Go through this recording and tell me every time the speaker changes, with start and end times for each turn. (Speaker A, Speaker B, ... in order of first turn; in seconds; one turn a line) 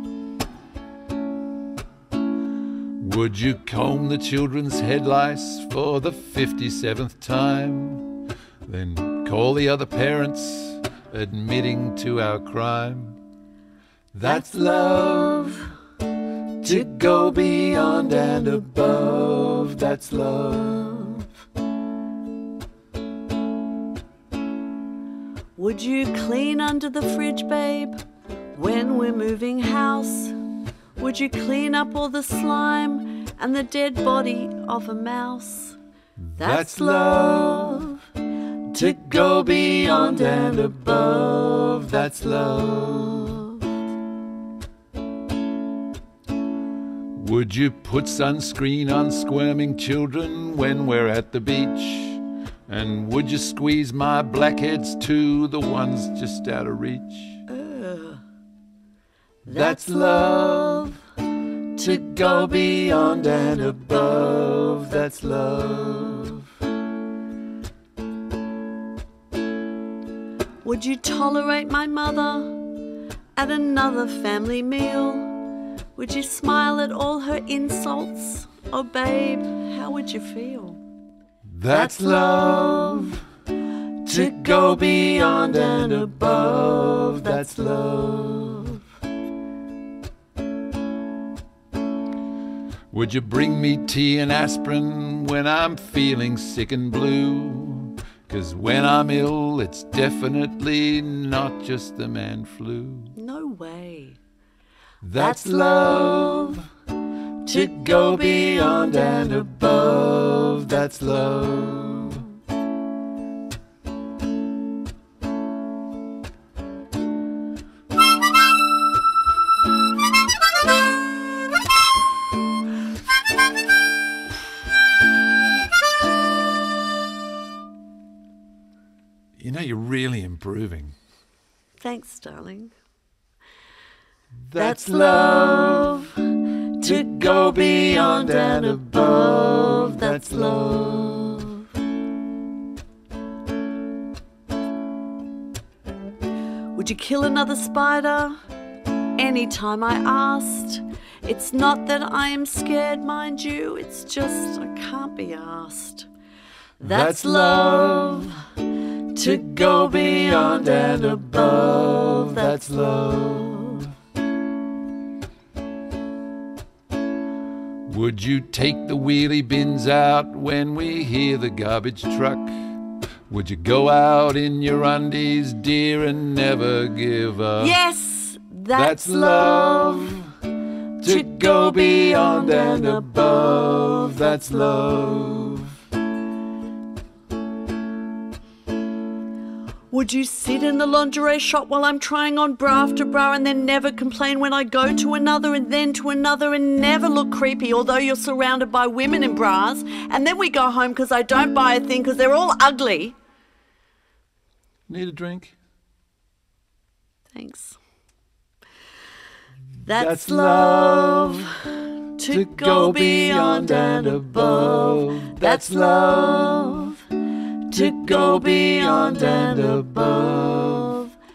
Speaker A: 3.0-8.1
Speaker A: 8.6-13.2
Speaker A: 14.1-15.7
Speaker A: 16.6-21.2
Speaker B: 25.6-28.0
Speaker B: 28.5-30.4
Speaker B: 31.0-35.8
Speaker A: 36.2-38.0
Speaker B: 36.4-38.0
Speaker B: 38.7-43.6
Speaker A: 38.7-43.4
Speaker A: 47.1-57.4
Speaker B: 57.5-58.2
Speaker B: 59.5-60.9
Speaker A: 59.5-61.0
Speaker A: 61.8-66.4
Speaker B: 61.8-65.0
Speaker B: 70.6-72.6
Speaker B: 73.3-75.3
Speaker B: 76.0-80.8
Speaker A: 81.5-83.2
Speaker B: 81.7-83.1
Speaker B: 84.0-88.8
Speaker A: 84.0-88.8
Speaker A: 92.9-103.1
Speaker B: 103.2-104.2
Speaker A: 105.0-106.7
Speaker B: 105.2-106.6
Speaker B: 107.4-111.0
Speaker A: 107.5-112.2
Speaker B: 111.7-112.2
Speaker A: 129.4-130.9
Speaker B: 131.8-132.7
Speaker A: 134.5-136.1
Speaker B: 134.5-141.7
Speaker A: 136.8-141.3
Speaker B: 146.7-148.4
Speaker B: 149.2-156.1
Speaker A: 156.8-158.3
Speaker B: 156.8-158.5
Speaker B: 159.1-163.9
Speaker A: 159.4-163.8
Speaker A: 167.9-172.5
Speaker A: 173.3-177.8
Speaker B: 177.6-180.2
Speaker A: 178.7-180.3
Speaker A: 181.0-185.7
Speaker B: 181.0-185.6
Speaker B: 189.9-203.2
Speaker A: 204.9-205.5
Speaker B: 207.3-207.8
Speaker A: 209.8-211.6
Speaker B: 209.8-211.6
Speaker B: 212.2-217.1
Speaker A: 212.3-216.9
Speaker B: 217.7-221.1
Speaker A: 217.7-221.0